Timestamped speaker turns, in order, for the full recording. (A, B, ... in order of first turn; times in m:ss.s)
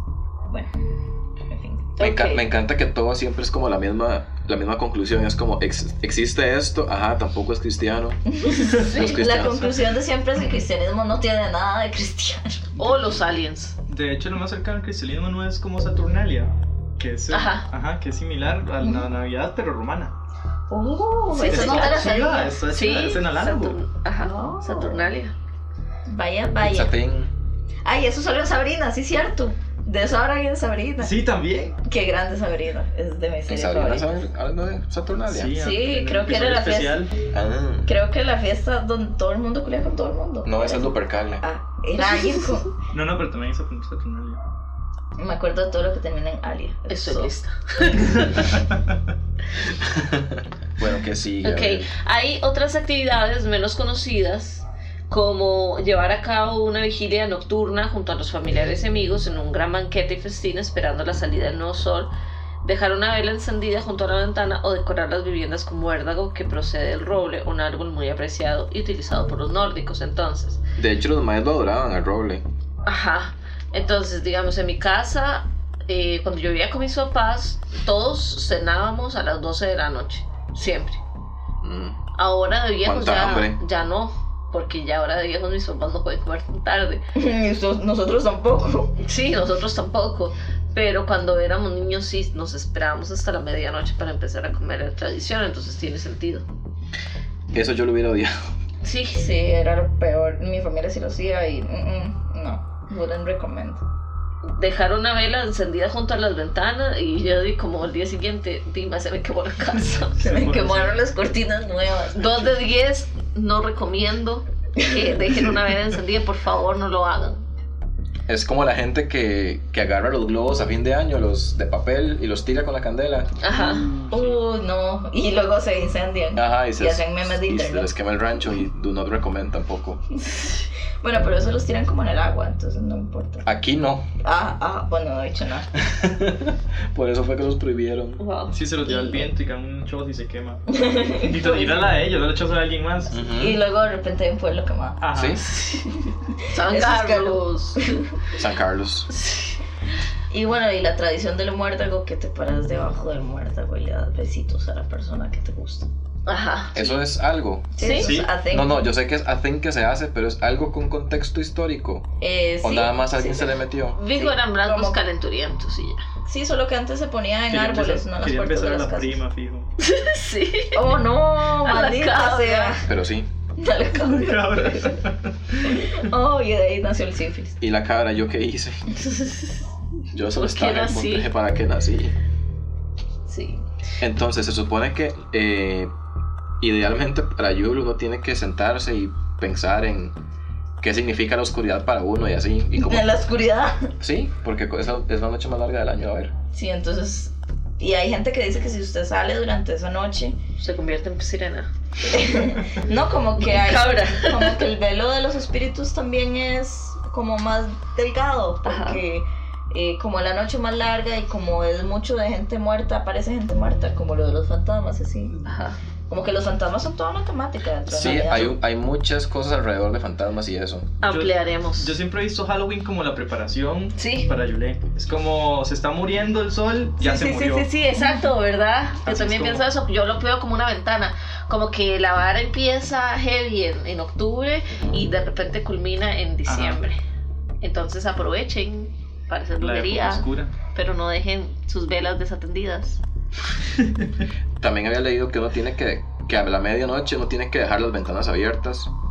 0:01.5-0:02.0 A
0:02.0-0:02.4 B
0:02.0-0:08.2 C
0:08.3-0:12.6 A
0:08.7-0:09.2 B
0:08.7-0:09.7 C
0:12.8-0:13.8 B
0:13.9-0:20.1 D
0:17.3-0:17.7 B
0:18.8-0:19.1 A
0:20.7-0:22.4 A
0:21.3-0:25.3 B
0:21.4-0:23.8 D
0:24.2-0:25.1 A
0:26.1-0:26.9 A
0:26.6-0:27.3 C
0:27.8-0:31.1 A
0:31.0-0:31.7 D
0:31.8-0:34.2 A
0:33.5-0:35.6 C
0:35.2-0:37.1 D
0:35.6-0:37.1 A
0:37.3-0:37.9 C
0:37.9-0:42.7 A
0:40.4-0:41.4 C
0:42.9-0:44.4 D
0:45.2-0:47.3 A
0:46.9-0:48.4 B
0:49.8-0:51.9 C
0:51.4-1:02.1 B
1:02.6-1:10.6 B
1:10.8-1:12.4 C
1:12.8-1:21.0 B
1:21.6-1:22.0 C
1:22.2-1:27.0 B
1:22.8-1:23.6 C
1:27.1-1:29.0 A
1:29.0-1:36.4 B
1:37.5-1:38.4 C
1:38.8-1:39.2 B
1:39.1-1:43.8 A
1:44.4-1:50.3 B
1:50.2-1:51.0 D
1:50.2-1:52.4 A
1:52.1-1:57.4 B
1:54.8-1:55.1 A
1:58.3-2:03.3 C
2:03.4-2:03.9 B
2:03.5-2:04.4 D
2:04.1-2:07.9 A
2:06.4-2:10.0 C
2:10.2-2:13.4 A
2:13.4-2:14.1 C
2:14.2-2:15.7 A
2:15.8-2:18.2 C
2:18.2-2:18.6 B
2:18.5-2:23.2 D
2:18.8-2:19.3 A
2:20.7-2:21.9 A
2:23.1-2:23.6 C
2:23.3-2:25.0 A
2:25.0-2:25.4 D
2:25.1-2:25.4 C
2:25.7-2:28.0 A
2:26.5-2:27.8 B
2:28.3-2:29.1 C
2:29.2-2:29.5 B
2:30.3-2:35.9 A
2:36.2-2:37.0 B
2:36.7-2:42.1 C
2:37.8-2:38.8 A
2:37.8-2:38.2 B
2:37.9-2:38.3 D
2:42.2-2:45.0 A
2:42.6-2:44.0 C
2:43.9-2:46.0 B
2:46.2-2:49.2 A
2:47.5-2:49.7 D
2:49.8-2:52.8 B
2:50.7-2:52.9 A
2:52.8-2:53.3 C
2:53.6-2:55.0 A
2:53.9-2:55.8 D
2:55.6-2:57.6 A
2:57.6-2:59.0 C
2:59.0-2:59.6 B
3:00.1-3:02.1 C
3:00.2-3:01.3 B
3:03.3-3:03.6 B
3:04.0-3:05.9 C
3:06.6-3:10.1 C
3:10.8-3:13.1 C
3:12.8-3:13.9 A
3:14.0-3:16.3 C
3:16.5-3:20.4 A
3:20.6-3:22.4 B
3:22.1-3:35.4 A
3:23.4-3:24.6 B
3:28.6-3:29.0 B
3:35.4-3:35.8 B
3:36.1-3:38.6 A
3:37.9-3:40.9 C
3:41.0-3:42.0 B
3:41.0-3:47.7 D
3:44.0-3:44.3 B
3:47.0-3:57.0 B
3:48.0-3:48.2 A
3:49.0-3:49.6 D
3:56.4-3:56.8 D
3:57.6-4:03.0 B
3:59.6-4:00.5 D
4:04.6-4:08.9 C